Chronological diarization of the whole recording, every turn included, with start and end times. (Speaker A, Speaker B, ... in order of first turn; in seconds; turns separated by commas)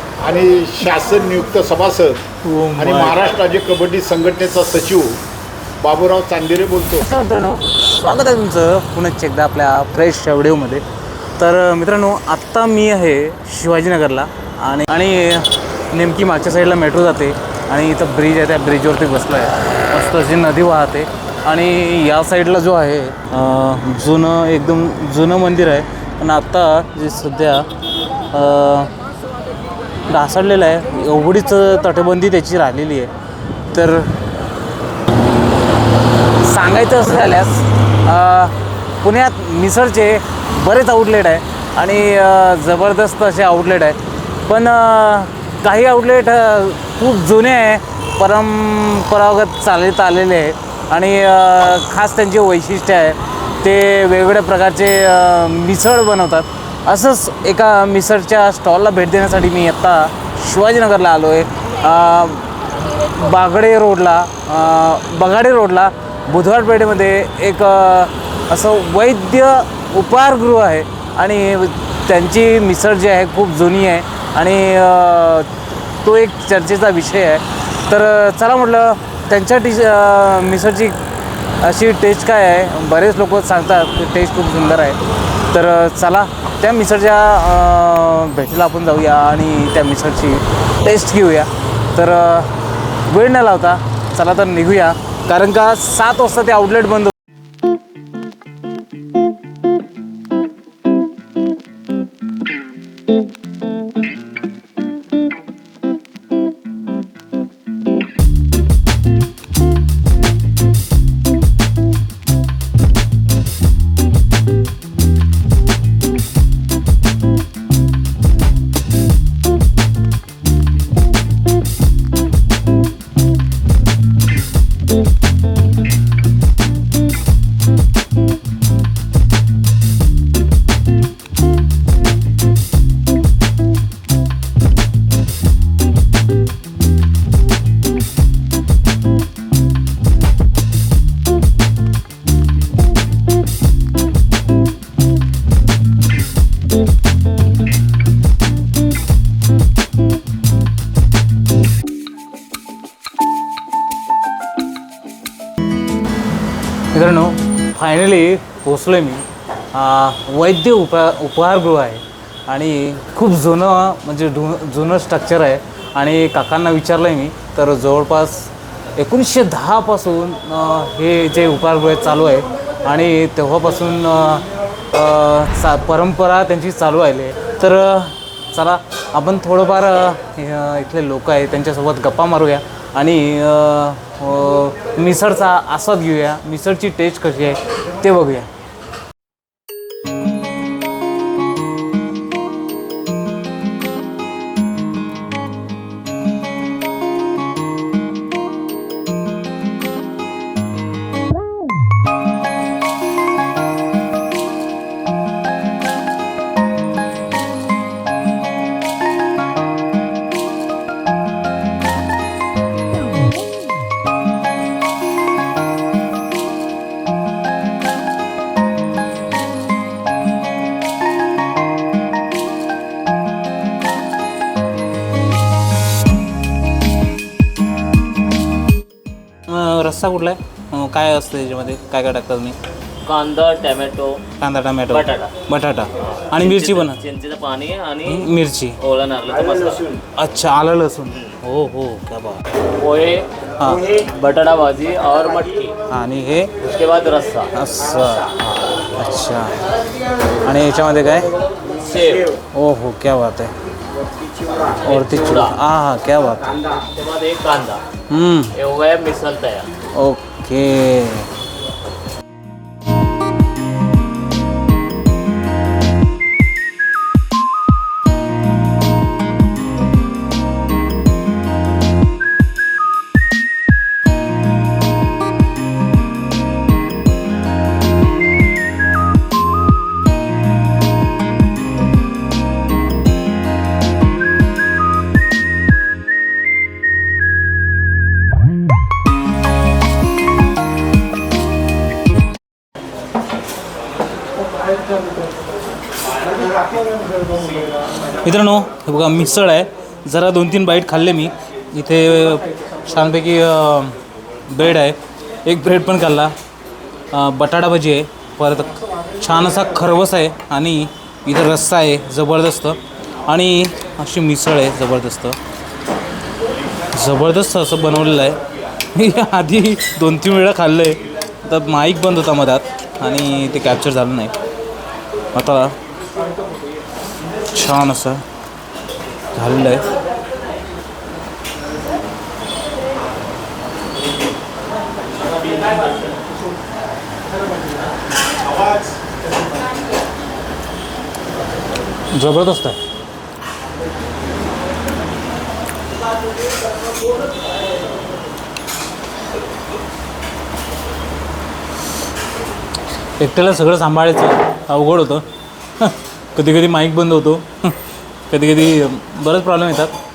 Speaker A: 0.2-2.2, Speaker B: 2.4-3.2, Speaker A: 2.8-5.2, Speaker A: 5.8-7.0, Speaker B: 7.0-10.8, Speaker B: 11.4-27.7, Speaker B: 28.3-28.9, Speaker B: 30.1-33.1, Speaker B: 33.7-34.2, Speaker B: 36.4-81.0, Speaker B: 81.6-92.5, Speaker B: 93.1-97.1, Speaker B: 156.9-188.5, Speaker B: 229.5-232.6, Speaker C: 233.0-234.2, Speaker B: 234.4-237.0, Speaker C: 234.9-235.3, Speaker C: 236.3-238.3, Speaker B: 238.1-238.8, Speaker C: 238.8-240.0, Speaker B: 240.2-242.4, Speaker C: 242.8-245.8, Speaker B: 243.6-243.9, Speaker B: 245.9-246.6, Speaker C: 246.6-247.5, Speaker B: 247.5-249.6, Speaker B: 250.4-251.3, Speaker C: 251.6-252.4, Speaker B: 252.5-253.5, Speaker B: 254.8-256.6, Speaker C: 255.1-255.5, Speaker C: 256.8-257.8, Speaker B: 258.1-258.6, Speaker C: 258.6-259.7, Speaker B: 259.9-261.3, Speaker B: 298.2-306.3, Speaker B: 307.1-315.4, Speaker B: 316.9-318.4, Speaker B: 318.9-324.3, Speaker B: 325.3-325.8, Speaker B: 327.5-328.2, Speaker B: 329.4-329.9, Speaker B: 342.1-342.8, Speaker B: 353.2-357.8, Speaker B: 358.3-359.9